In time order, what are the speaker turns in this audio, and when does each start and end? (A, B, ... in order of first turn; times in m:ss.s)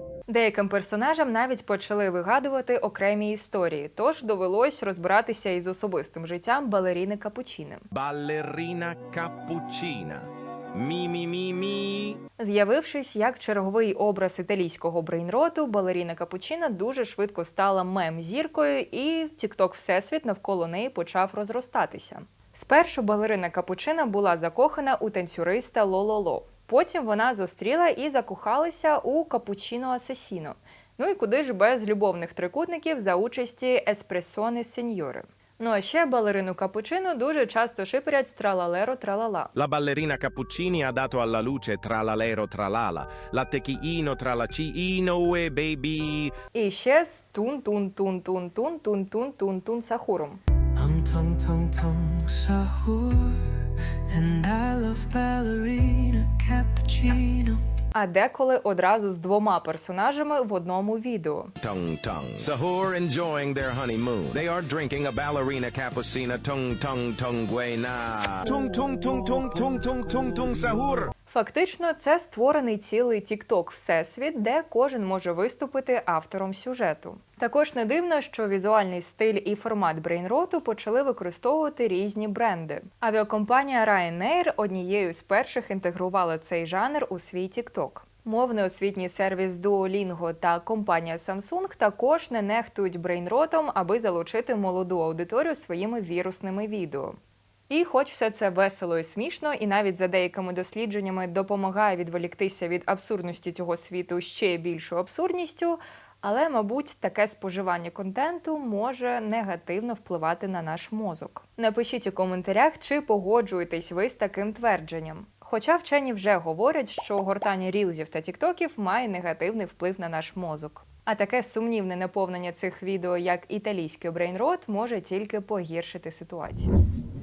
0:00.3-0:07.8 A
0:07.9-0:12.2 B
0:12.4-0:39.5 A
0:39.5-0:46.3 B
0:46.5-0:50.4 A
0:50.7-0:57.6 C
0:57.9-1:01.5 A
1:01.6-1:11.1 B
1:11.3-1:37.2 A
1:37.7-2:06.7 A